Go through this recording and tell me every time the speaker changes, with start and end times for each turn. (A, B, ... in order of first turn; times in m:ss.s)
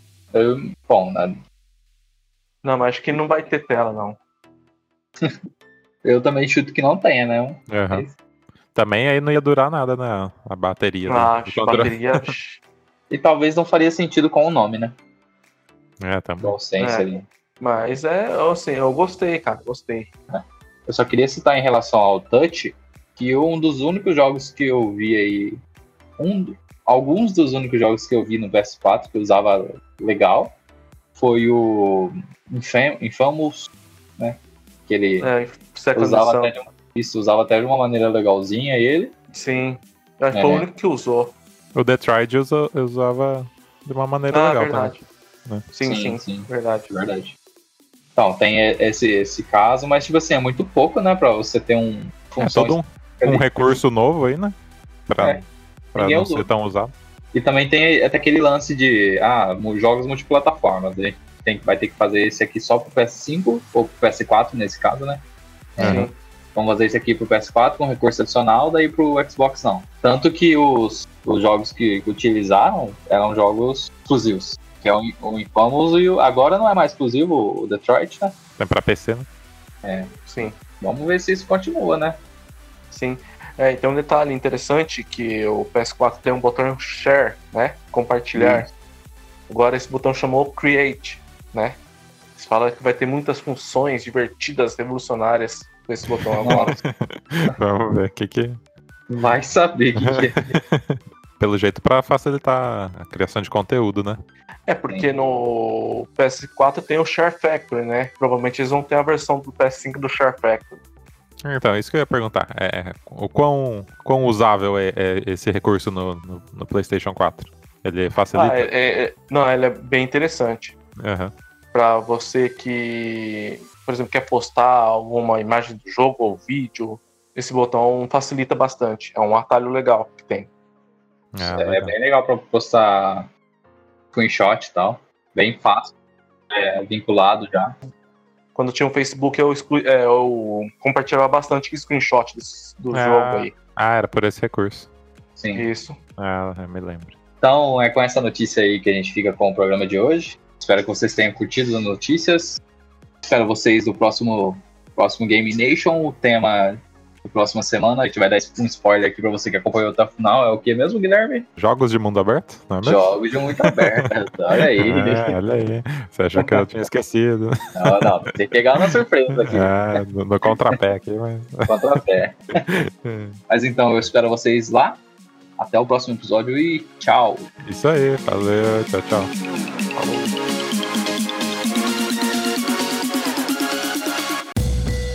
0:00.3-0:01.4 A
0:02.6-0:04.2 B
0:06.0-0:08.1 A
0:07.7-0:08.0 C
0:08.7-0:12.3 C
0:11.1-0:12.6 B
0:13.1-0:14.9 A
0:16.0-0:16.5 C
0:16.4-0:17.2 A
0:16.8-0:17.1 B
0:17.6-0:20.1 B
0:20.3-0:25.6 A
0:26.2-0:30.5 A
0:31.2-0:35.3 A
0:35.2-0:36.6 B
0:35.9-0:39.1 A
0:39.3-0:41.3 B
0:40.3-0:40.6 A
0:41.7-0:45.6 C
0:44.3-0:45.0 B
0:45.7-0:46.9 B
0:45.8-0:47.3 A
0:48.2-0:53.5 A
0:52.4-0:54.5 C
0:55.1-0:55.4 C
0:55.9-0:56.9 C
0:55.9-0:56.5 A
0:57.3-1:05.2 A
1:05.8-1:18.3 A
1:05.8-1:06.1 C
1:05.8-1:06.1 B
1:18.6-1:19.3 C
1:19.8-1:22.2 A
1:20.2-1:20.5 B
1:22.9-1:28.7 B
1:28.3-1:28.7 A
1:29.5-1:31.8 B
1:32.4-1:36.8 B
1:36.4-1:38.6 C
1:36.4-1:36.7 A
1:39.1-1:40.5 A
1:40.0-1:44.2 C
1:44.6-1:50.8 B
1:44.9-1:45.2 A
1:51.4-1:58.7 C
1:58.3-2:00.7 B
2:01.0-2:01.3 C
2:01.7-2:10.5 B
2:11.3-2:11.9 C
2:11.4-2:13.3 A
2:14.1-2:15.9 A
2:16.5-2:17.8 A
2:18.5-2:23.5 B
2:22.9-2:24.9 C
2:25.4-2:25.6 A
2:25.5-2:26.0 B
2:26.2-2:27.2 C
2:27.4-2:32.6 A
2:33.2-2:41.4 A
2:41.6-2:43.0 C
2:42.8-2:45.4 A
2:43.6-2:44.0 C
2:44.7-2:48.0 C
2:46.4-2:46.6 A
2:47.7-2:50.0 A
2:48.9-2:52.0 C
2:51.7-2:52.6 A
2:52.7-2:53.4 C
2:53.5-2:55.0 A
2:55.6-2:57.4 A
2:57.6-2:59.3 C
3:00.0-3:00.3 C